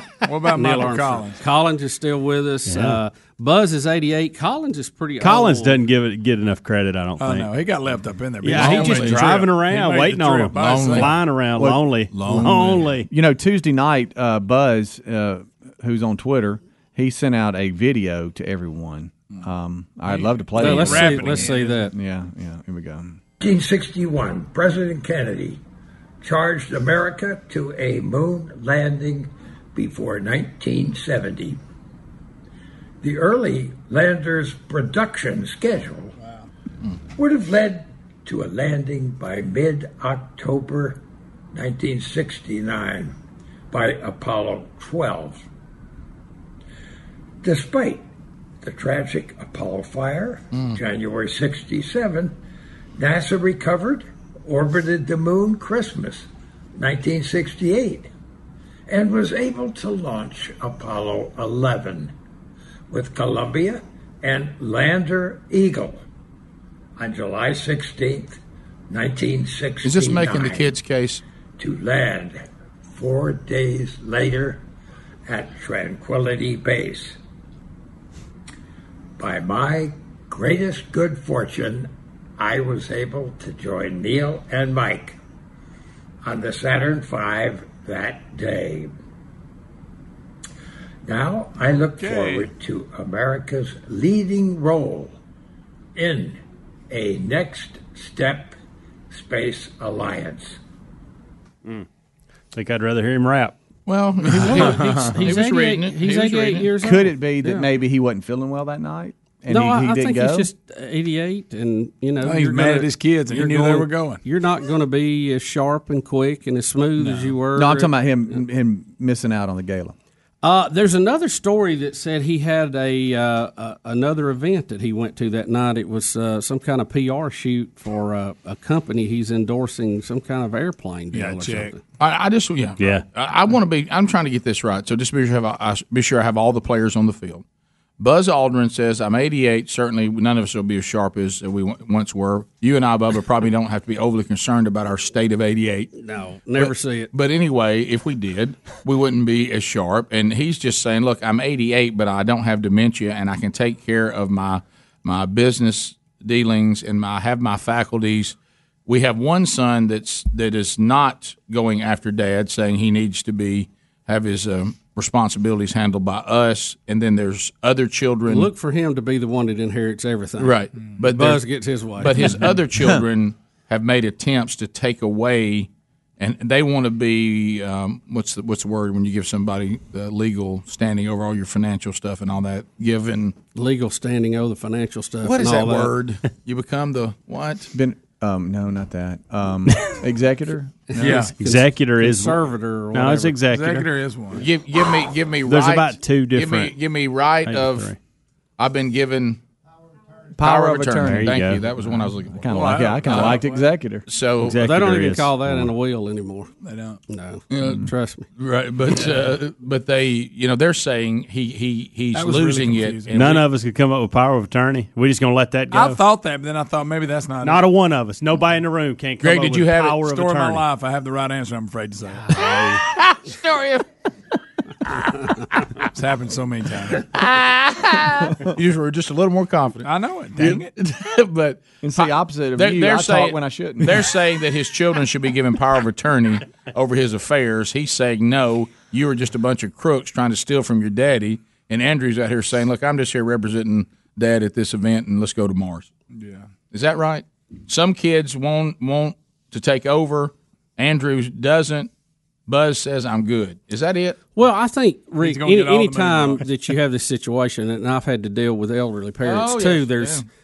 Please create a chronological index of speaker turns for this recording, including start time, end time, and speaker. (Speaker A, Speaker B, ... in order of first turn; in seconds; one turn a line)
Speaker A: 0.2-1.4
Speaker B: 0.5-5.8
Speaker C: 2.6-3.0
Speaker C: 5.2-7.5
Speaker A: 7.2-11.2
Speaker C: 8.4-13.1
Speaker D: 8.5-9.2
Speaker D: 10.5-11.2
Speaker E: 11.6-11.8
Speaker A: 12.2-12.8
Speaker D: 12.3-12.7
Speaker E: 13.1-23.2
Speaker A: 20.1-21.9
Speaker B: 20.6-21.9
Speaker F: 23.4-25.6
Speaker F: 26.2-31.6
Speaker F: 33.0-36.1
Speaker F: 37.1-43.1
Speaker F: 43.7-45.5
Speaker F: 47.4-48.1
Speaker F: 48.6-52.4
Speaker F: 52.9-58.1
Speaker F: 58.9-62.1
Speaker F: 62.9-66.0
Speaker F: 67.0-70.7
Speaker D: 69.8-71.2
Speaker F: 71.6-74.6
Speaker F: 75.3-77.2
Speaker F: 79.2-85.2
Speaker F: 86.2-88.9
Speaker F: 91.0-95.2
Speaker A: 91.9-92.5
Speaker F: 95.9-98.6
Speaker F: 99.1-100.6
Speaker C: 102.5-103.5
Speaker D: 103.9-106.7
Speaker B: 104.5-107.7
Speaker E: 106.8-110.5
Speaker B: 109.5-117.9
Speaker A: 112.2-114.2
Speaker A: 117.0-117.3
Speaker E: 117.5-119.9
Speaker B: 120.4-131.8
Speaker A: 131.1-131.7
Speaker D: 132.0-137.4
Speaker C: 132.8-133.0
Speaker D: 138.0-145.9
Speaker B: 146.0-147.1
Speaker D: 146.6-158.3
Speaker D: 158.9-168.5
Speaker B: 168.3-170.6
Speaker D: 170.4-171.4
Speaker B: 171.1-172.5
Speaker D: 172.0-183.3
Speaker E: 172.8-173.0
Speaker B: 183.5-185.9
Speaker D: 185.2-187.7
Speaker E: 187.7-190.7
Speaker B: 190.9-193.4
Speaker A: 190.9-191.3
Speaker C: 191.0-192.4
Speaker C: 192.9-193.9
Speaker A: 193.5-194.5
Speaker D: 194.3-197.9
Speaker C: 195.4-196.8
Speaker C: 197.4-198.0
Speaker D: 198.6-199.4
Speaker E: 200.3-204.0
Speaker D: 200.4-203.4
Speaker C: 201.0-201.7
Speaker A: 202.5-203.6
Speaker D: 204.1-204.6
Speaker C: 204.4-205.7
Speaker B: 204.5-206.5
Speaker A: 206.6-207.0
Speaker B: 207.1-208.2
Speaker D: 207.5-207.8
Speaker D: 208.4-213.5
Speaker A: 212.1-213.3
Speaker C: 213.1-216.0
Speaker A: 215.7-217.7
Speaker C: 217.4-220.7
Speaker D: 219.2-220.1
Speaker A: 219.9-222.8
Speaker D: 222.3-223.8
Speaker A: 225.9-227.1
Speaker D: 227.1-245.9
Speaker A: 229.8-230.7
Speaker E: 231.8-234.1
Speaker A: 246.1-246.5
Speaker D: 246.7-251.9
Speaker D: 252.5-254.2
Speaker B: 254.3-260.2
Speaker A: 255.2-256.4
Speaker D: 259.2-260.2